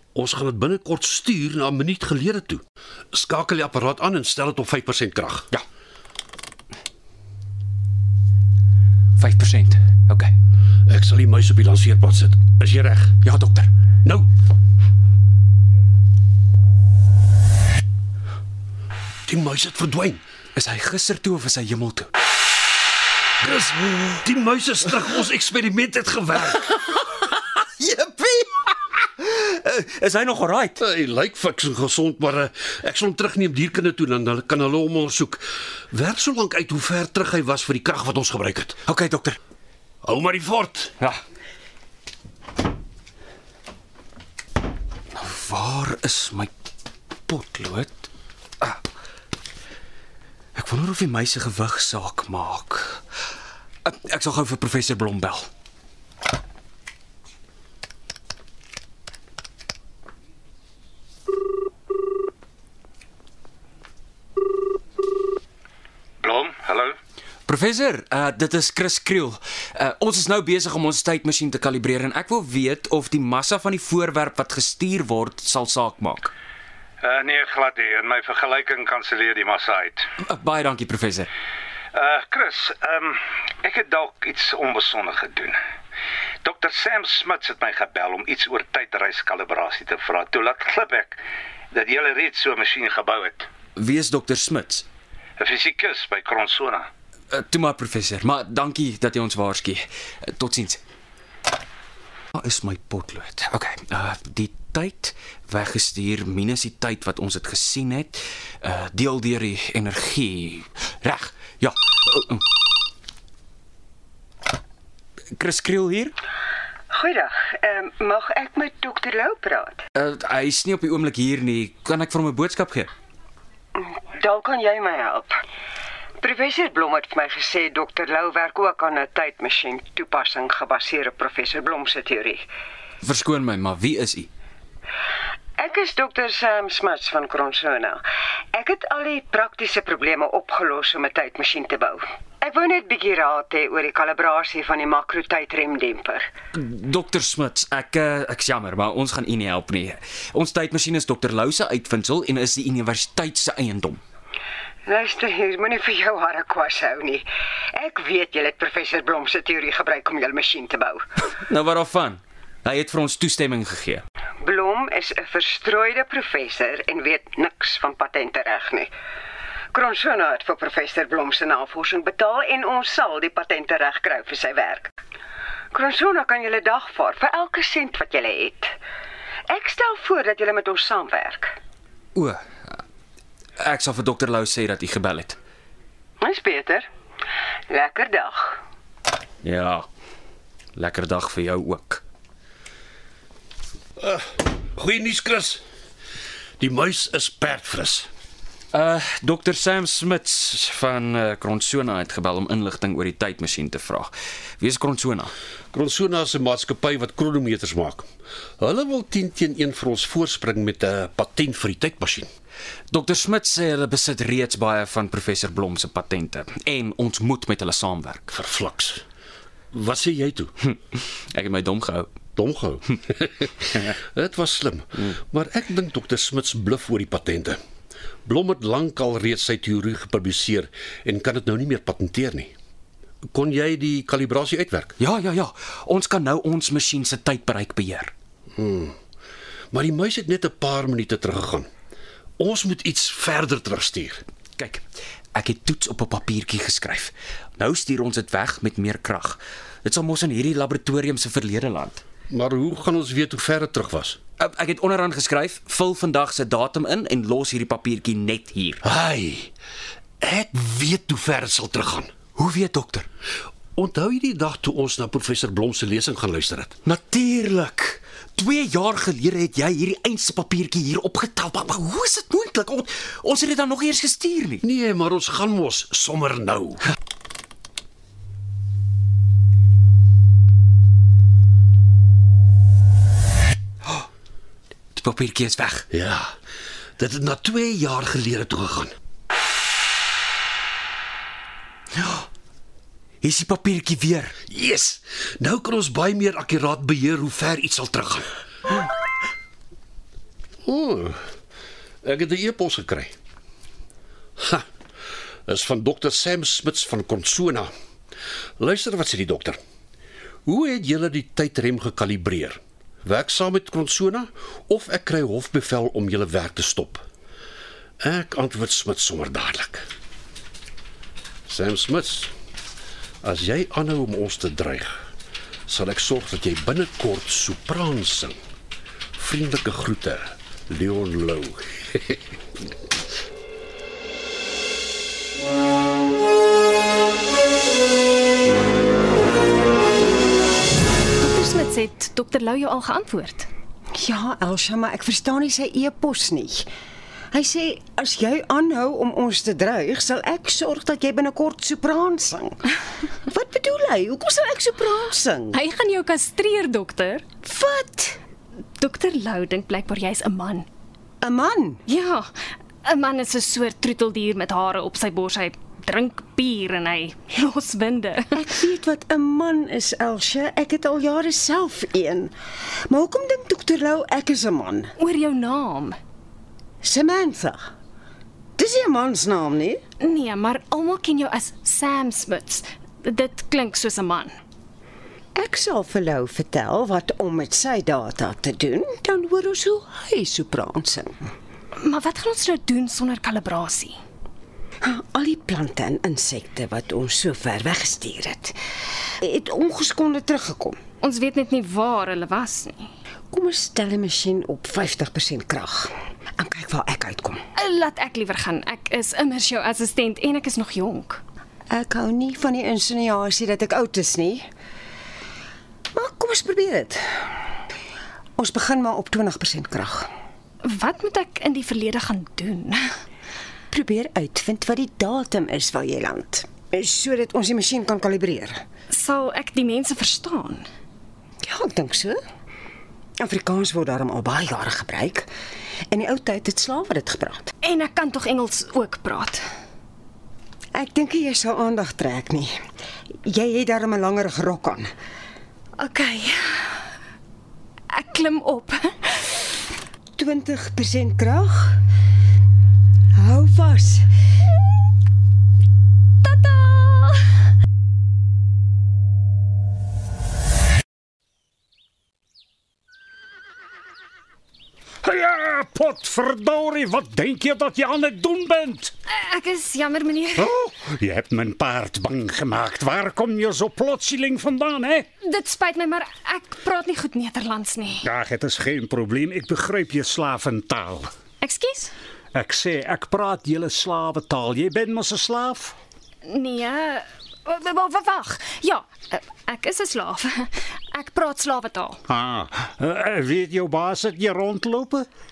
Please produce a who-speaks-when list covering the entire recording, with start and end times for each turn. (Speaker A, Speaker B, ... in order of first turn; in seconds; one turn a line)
Speaker A: 0.1-5.5
Speaker B: 9.2-10.3
Speaker A: 10.9-13.2
Speaker B: 13.2-13.7
Speaker A: 19.3-20.2
Speaker B: 20.6-22.1
Speaker A: 23.4-26.6
Speaker B: 27.8-28.6
Speaker B: 29.2-30.8
Speaker A: 30.8-38.8
Speaker B: 38.9-39.4
Speaker A: 40.0-40.9
Speaker B: 45.1-46.5
Speaker B: 47.3-48.1
Speaker B: 50.5-53.0
Speaker B: 53.8-55.5
Speaker C: 66.2-66.9
Speaker B: 67.5-76.3
Speaker C: 77.0-80.0
Speaker B: 80.2-81.3
Speaker C: 81.9-85.5
Speaker C: 86.4-91.2
Speaker C: 91.7-93.5
Speaker B: 93.8-94.9
Speaker C: 95.4-96.8
Speaker B: 97.3-100.8
Speaker B: 102.3-112.5
Speaker B: 115.3-116.2
Speaker D: 116.9-119.8
Speaker B: 120.0-122.9
Speaker D: 123.8-125.4
Speaker D: 126.2-132.4
Speaker B: 133.0-134.3
Speaker D: 135.6-146.3
Speaker B: 146.5-154.0
Speaker D: 154.9-161.1
Speaker B: 161.3-164.0
Speaker D: 164.4-168.9
Speaker D: 169.7-174.9
Speaker D: 175.7-178.7
Speaker D: 179.5-181.6
Speaker B: 182.2-182.8
Speaker B: 183.6-185.4
Speaker D: 186.2-186.9
Speaker D: 187.7-188.6
Speaker B: 189.4-189.9
Speaker B: 190.8-192.0
Speaker A: 194.0-195.6
Speaker A: 196.6-198.1
Speaker B: 198.7-205.3
Speaker A: 205.7-208.1
Speaker A: 208.6-212.3
Speaker B: 212.9-218.3
Speaker A: 218.3-219.0
Speaker A: 219.7-220.5
Speaker B: 220.6-222.1
Speaker A: 222.4-227.6
Speaker A: 228.2-232.5
Speaker A: 233.3-234.9
Speaker B: 235.0-238.1
Speaker A: 238.6-239.0
Speaker A: 239.7-241.7
Speaker A: 242.4-244.2
Speaker B: 244.6-252.1
Speaker A: 252.3-254.2
Speaker B: 254.4-258.8
Speaker A: 258.8-259.5
Speaker A: 260.2-262.1
Speaker B: 262.4-263.1
Speaker A: 263.8-266.8
Speaker B: 266.9-274.6
Speaker A: 274.6-276.9
Speaker B: 284.9-285.9
Speaker A: 285.9-286.3
Speaker A: 287.0-288.9
Speaker B: 291.9-292.3
Speaker B: 293.2-294.4
Speaker A: 294.5-298.3
Speaker A: 300.6-301.2
Speaker A: 302.0-303.1
Speaker A: 304.4-304.7
Speaker A: 305.5-307.7
Speaker A: 308.6-309.6
Speaker A: 310.5-317.0
Speaker A: 318.0-319.9
Speaker A: 321.5-322.3
Speaker A: 323.2-325.1
Speaker A: 325.7-328.4
Speaker A: 329.1-332.2
Speaker E: 341.2-343.5
Speaker D: 343.9-346.7
Speaker D: 347.3-352.6
Speaker D: 353.3-355.6
Speaker E: 355.5-357.4
Speaker D: 357.4-358.2
Speaker E: 358.8-360.7
Speaker D: 361.2-361.8
Speaker E: 361.9-362.3
Speaker E: 362.8-368.5
Speaker D: 368.4-372.3
Speaker D: 372.9-374.9
Speaker E: 375.0-376.0
Speaker D: 376.8-377.6
Speaker D: 378.6-379.8
Speaker E: 380.0-384.4
Speaker D: 385.4-391.3
Speaker E: 391.8-394.0
Speaker D: 394.8-398.6
Speaker D: 399.2-400.8
Speaker E: 401.0-402.9
Speaker D: 403.3-407.4
Speaker E: 407.6-411.2
Speaker D: 411.7-414.4
Speaker D: 415.9-417.0
Speaker D: 418.4-420.1
Speaker E: 420.6-422.9
Speaker D: 423.7-428.6
Speaker E: 428.9-430.7
Speaker D: 431.4-432.2
Speaker D: 433.2-435.3
Speaker D: 435.9-437.5
Speaker E: 437.6-439.4
Speaker D: 440.7-442.5
Speaker D: 443.3-444.9
Speaker E: 445.8-446.8
Speaker E: 447.9-449.4
Speaker D: 450.2-451.8
Speaker D: 453.2-454.1
Speaker E: 456.2-457.2
Speaker F: 465.0-468.9
Speaker E: 469.1-470.5
Speaker F: 470.4-475.1
Speaker E: 475.2-478.1
Speaker F: 478.0-481.1
Speaker E: 481.4-481.9
Speaker F: 482.3-485.8
Speaker E: 486.3-492.0
Speaker F: 492.1-495.1